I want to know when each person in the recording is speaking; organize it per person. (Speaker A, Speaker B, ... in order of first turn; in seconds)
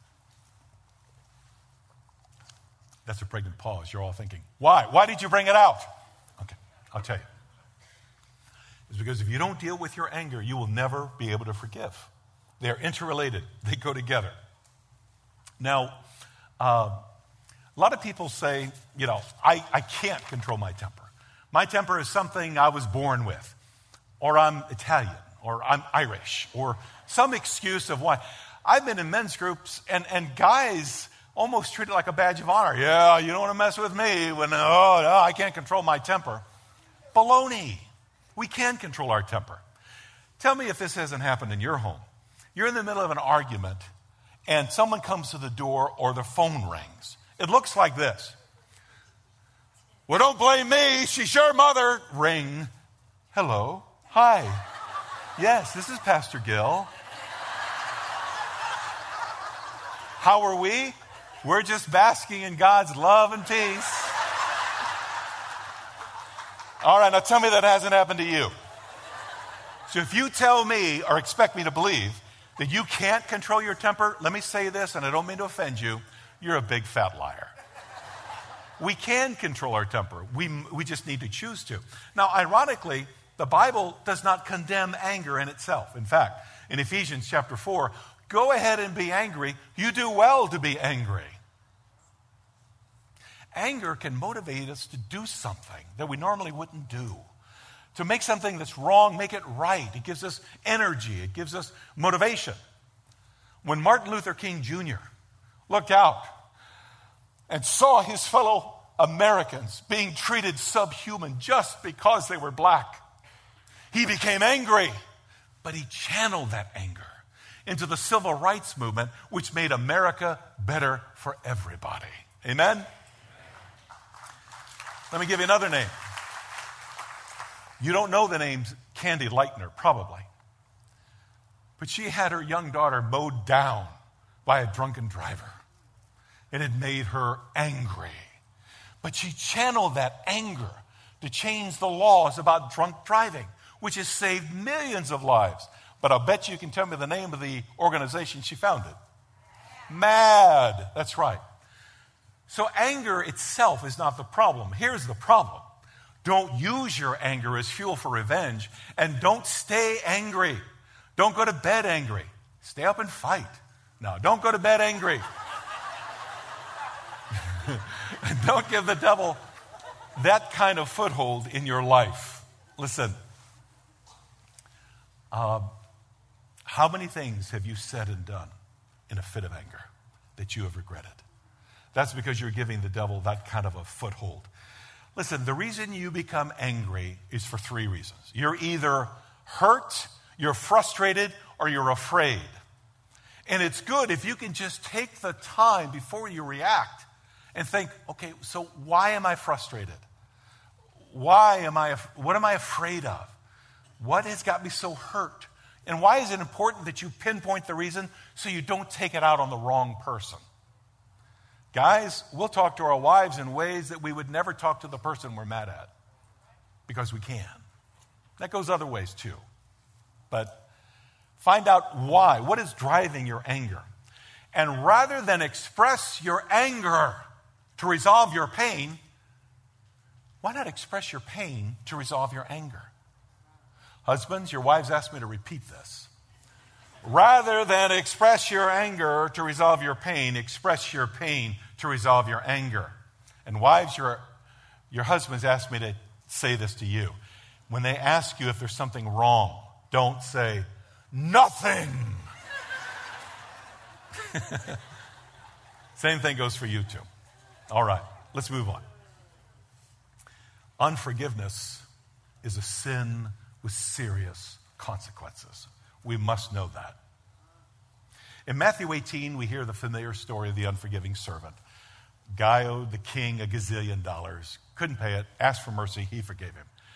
Speaker A: 3.1-5.9, 6.4-7.2, 8.9-14.3, 15.6-16.0, 16.6-17.1, 17.8-23.6, 24.2-36.4, 37.1-39.6, 40.4-42.0, 42.5-43.9, 44.5-48.4, 50.1-52.7, 53.3-54.7, 55.4-56.9, 60.2-64.2, 66.8-68.5, 69.9-77.5, 78.8-91.4, 93.5-97.2, 97.9-102.6, 103.6-105.0, 105.7-106.3, 107.5-113.0, 113.9-115.0, 115.6-122.9, 125.1-125.9, 127.8-130.3, 131.8-135.6, 136.5-138.3, 139.0-149.0, 149.9-151.4, 152.5-155.7, 156.2-160.6, 161.2-165.2, 167.3-169.4, 170.2-173.2, 175.3-175.7, 176.7-178.5, 179.1-181.2, 181.9-184.5, 185.2-192.5, 193.5-200.0, 201.1-203.3, 204.0-210.4, 211.7-215.9, 216.9-217.6, 218.4-219.4, 220.3-220.7, 221.4-223.9, 224.5-227.2, 227.8-229.0, 230.4-232.9, 234.1-236.1, 237.0-242.9, 243.5-244.2, 244.9-247.2, 247.7-252.3, 254.2-254.8, 256.0-257.1, 257.7-258.8, 260.8-261.9, 262.4-267.0, 268.5-271.6, 272.3-276.7